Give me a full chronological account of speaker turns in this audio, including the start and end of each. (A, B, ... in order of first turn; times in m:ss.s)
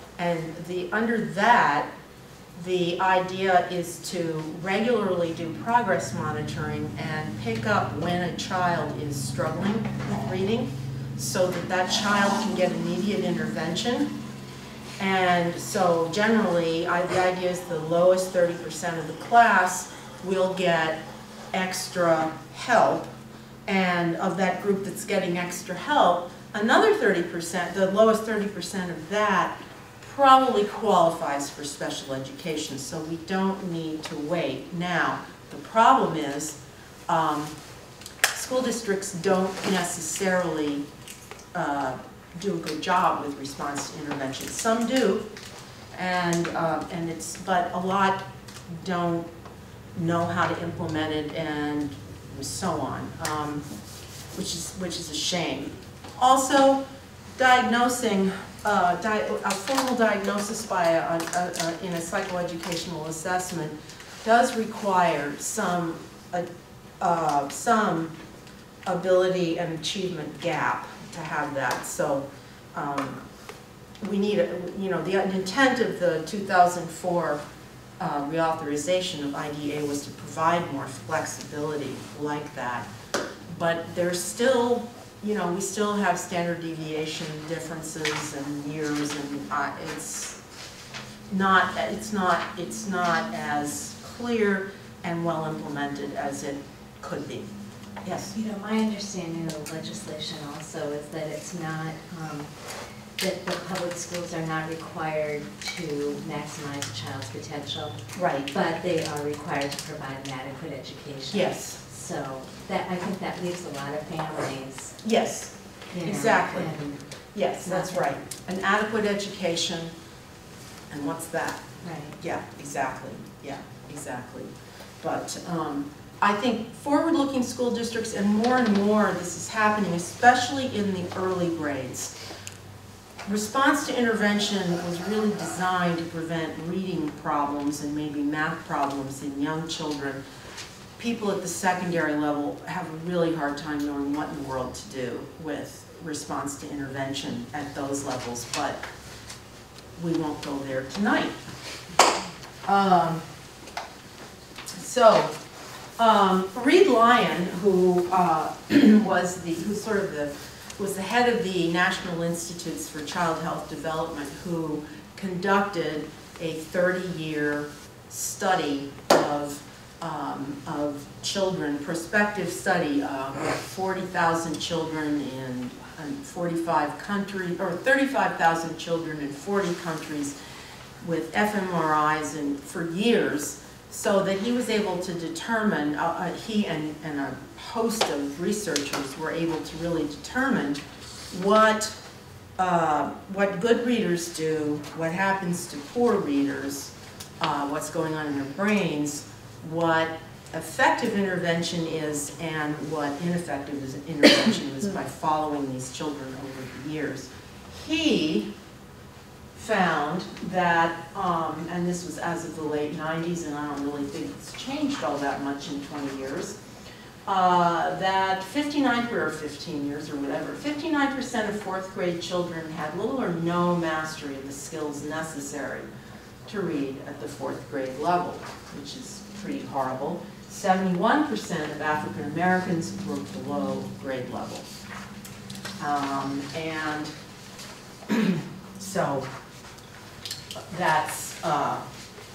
0:00.2-0:01.9 A
0:02.5-0:14.1 A
0:15.0-0:23.1 A
0:23.7-0:37.6 A
0:38.3-0:40.9 A
0:41.5-0:45.3 A
0:45.9-0:49.3 A
0:50.0-0:53.6 A
0:54.3-0:56.8 A
0:57.4-1:06.5 A
1:07.0-1:08.1 A
1:08.9-1:13.2 A
1:14.0-1:17.4 A
1:18.0-1:22.9 A
1:23.5-1:30.4 A
1:31.3-1:37.5 A
1:38.0-1:38.3 A
1:38.3-1:42.5 B
1:43.2-1:48.0 B
1:48.1-1:48.5 A
1:48.5-1:55.0 B
1:51.3-1:51.8 A
1:55.0-1:56.8 A
1:55.9-1:57.0 B
1:57.3-1:59.9 A
1:57.6-1:58.1 B
2:00.9-2:01.7 A
2:01.8-2:02.2 B
2:02.2-2:12.2 A
2:13.2-2:20.2 A
2:21.0-2:28.8 A
2:30.0-2:31.4 A
2:32.7-2:33.2 A
2:34.7-2:35.3 A
2:36.0-3:00.4 A
3:01.0-3:11.9 A
3:12.6-3:28.5 A
3:29.6-3:36.6 A
3:37.3-3:45.9 A
3:46.5-3:54.7 A
3:55.8-3:57.1 A
3:58.1-3:59.3 A
4:00.7-4:01.8 A